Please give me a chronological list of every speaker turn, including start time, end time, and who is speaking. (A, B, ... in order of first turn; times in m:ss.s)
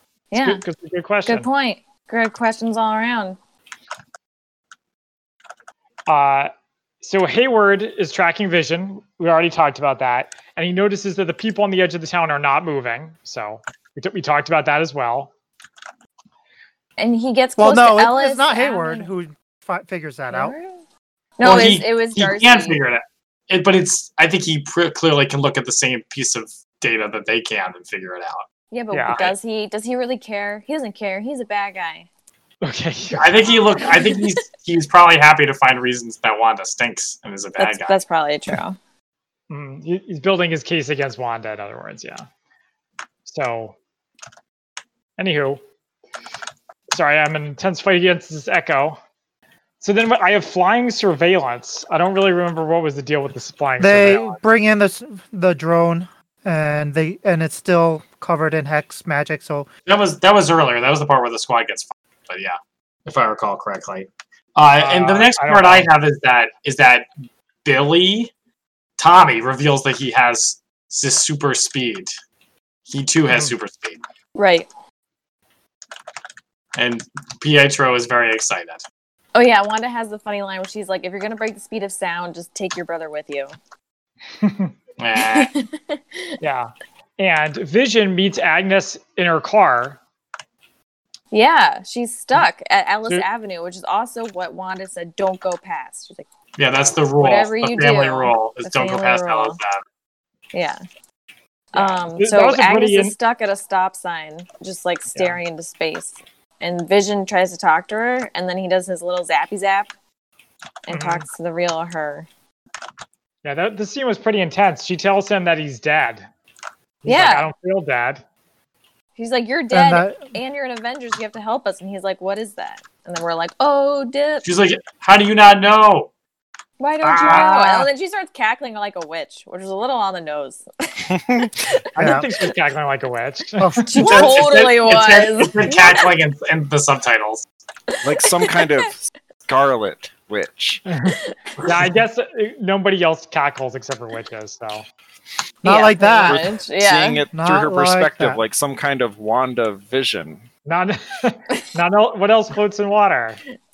0:00.3-0:00.6 A
0:00.3-0:01.5 B
0:01.2-0:03.4 A
0:06.1-0:06.5 B
0:07.0-0:15.3 B
0:17.0-0:19.1 A
0:17.6-0:20.5 C
0:20.3-0:20.8 A
0:21.4-0:22.8 A
0:21.4-0:28.4 D
0:28.7-0:32.1 A
0:28.9-0:29.3 B
0:32.6-0:33.6 B
0:33.2-0:38.0 D
0:33.7-0:34.4 A
0:37.6-0:38.8 A
0:39.5-0:42.2 B
0:43.2-0:43.8 B
0:45.2-0:45.6 B
0:46.9-0:49.0 B
0:49.8-0:54.4 B
0:53.8-0:59.7 C
0:59.9-1:07.1 D
1:04.7-1:05.9 B
1:07.6-1:08.3 D
1:09.0-1:12.1 D
1:12.9-1:14.0 D
1:14.3-1:14.7 A
1:16.8-1:18.8 D
1:19.3-1:23.5 A
1:24.4-1:24.7 B
1:25.0-1:25.5 D
1:25.3-1:26.4 A
1:26.4-1:30.0 B
1:31.3-1:36.2 A
1:36.6-1:39.8 D
1:37.2-1:39.6 A
1:40.5-1:40.8 A
1:41.7-1:49.9 A
1:41.7-1:43.1 B
1:50.8-1:52.3 A
1:50.9-1:51.2 B
1:53.4-1:56.2 B
1:57.0-1:58.2 B
1:57.0-1:57.5 A
1:59.2-2:04.4 A
1:59.7-2:00.3 C
2:04.4-2:06.1 D
2:06.8-2:11.8 A
2:07.0-2:07.8 D
2:07.2-2:07.6 B
2:11.1-2:11.5 E
2:11.9-2:13.8 B
2:12.0-2:12.3 C
2:13.6-2:14.4 C
2:13.8-2:16.1 A
2:13.9-2:17.5 D
2:17.9-2:18.8 A
2:18.0-2:20.8 E
2:20.9-2:24.8 B
2:21.1-2:21.4 A
2:25.6-2:27.2 A
2:25.6-2:26.4 C
2:26.2-2:30.4 E
2:27.3-2:28.4 C
2:30.6-2:33.4 B